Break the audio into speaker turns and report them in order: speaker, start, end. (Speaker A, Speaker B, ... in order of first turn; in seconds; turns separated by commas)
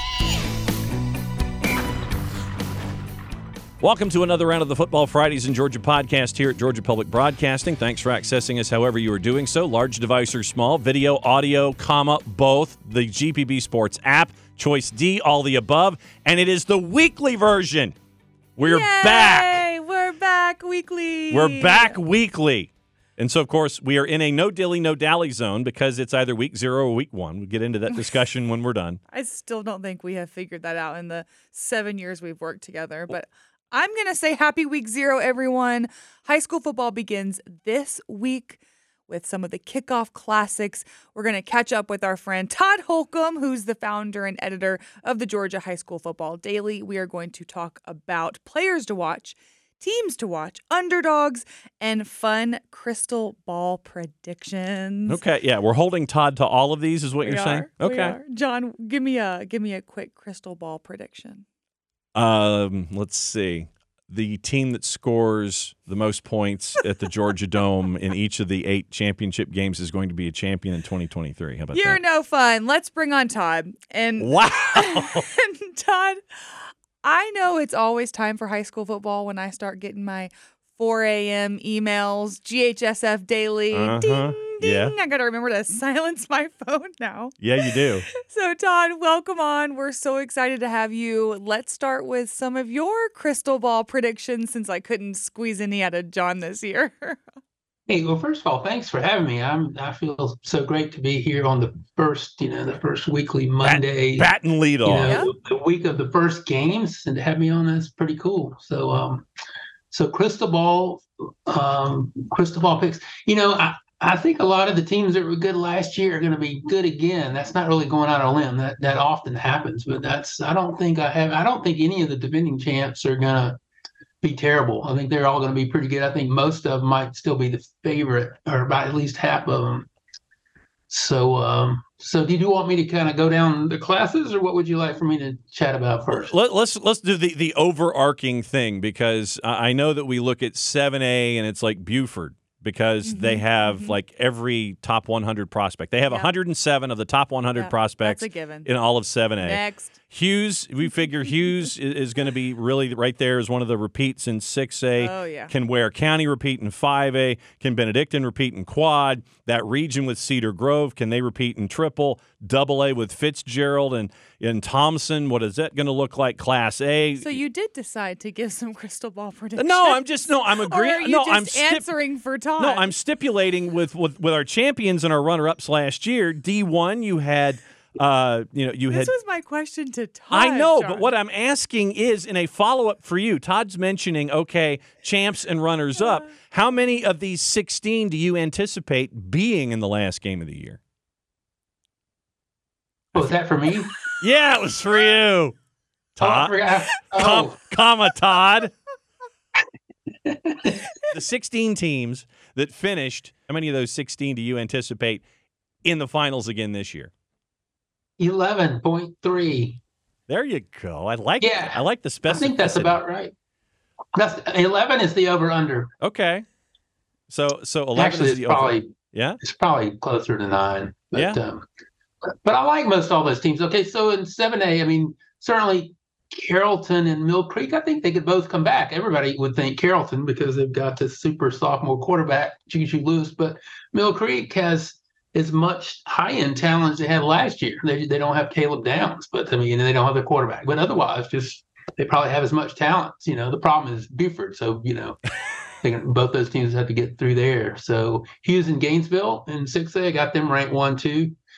Speaker A: 3.8-17.9, Speaker A: 18.6-19.6, Speaker B: 18.6-22.0, Speaker A: 21.3-29.0, Speaker B: 29.1-55.2, Speaker A: 55.1-58.2, Speaker B: 57.2-61.4, Speaker A: 62.1-72.0, Speaker B: 71.7-76.2, Speaker A: 74.2-75.3, Speaker B: 77.0-97.2, Speaker A: 83.7-84.9, Speaker A: 87.4-88.0, Speaker C: 97.9-104.3, Speaker A: 103.6-105.2, Speaker C: 104.8-109.2, Speaker B: 105.0-105.3, Speaker C: 109.9-123.6, Speaker C: 124.2-129.9, Speaker C: 130.9-136.3, Speaker A: 136.1-167.4, Speaker B: 143.0-144.0, Speaker B: 147.5-148.7, Speaker B: 149.4-149.9, Speaker B: 155.0-155.5, Speaker B: 167.2-172.9, Speaker A: 169.6-171.9, Speaker A: 172.6-179.1, Speaker B: 178.9-181.1, Speaker A: 180.3-190.8, Speaker C: 193.1-193.9, Speaker A: 194.2-195.6, Speaker A: 196.2-198.7, Speaker C: 196.2-197.6, Speaker C: 200.2-200.8, Speaker A: 201.0-205.2, Speaker A: 205.8-207.1, Speaker C: 208.2-209.8, Speaker A: 210.3-213.0, Speaker C: 211.4-213.3, Speaker C: 214.1-215.9, Speaker A: 216.0-216.4, Speaker A: 217.3-219.4, Speaker C: 217.9-221.6, Speaker A: 221.1-221.4, Speaker C: 222.3-245.2, Speaker C: 245.8-251.3